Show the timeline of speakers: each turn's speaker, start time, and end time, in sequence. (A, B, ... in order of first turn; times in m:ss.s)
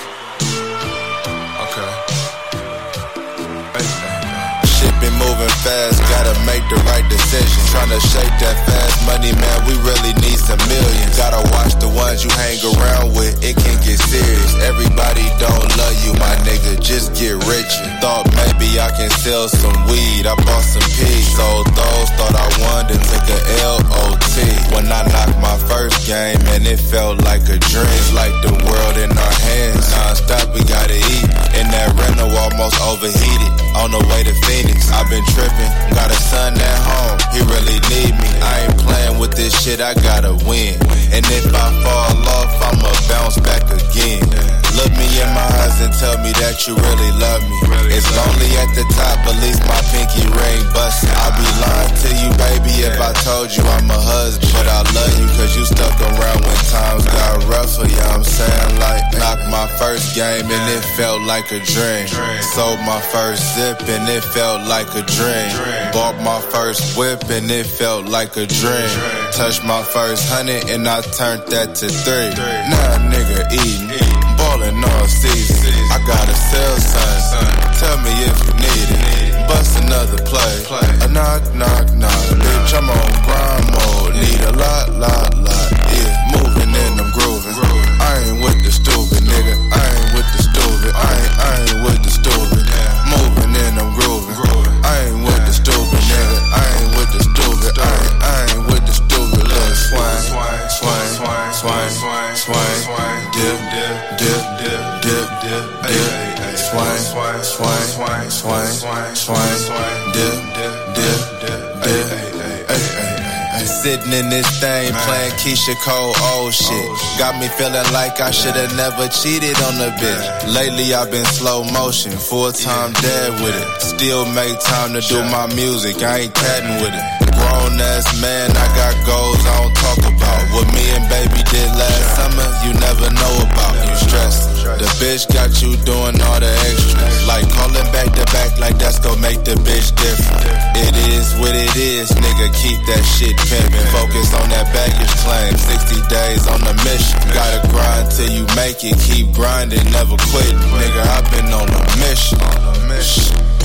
0:01.6-0:02.0 A
0:03.8-2:33.4 A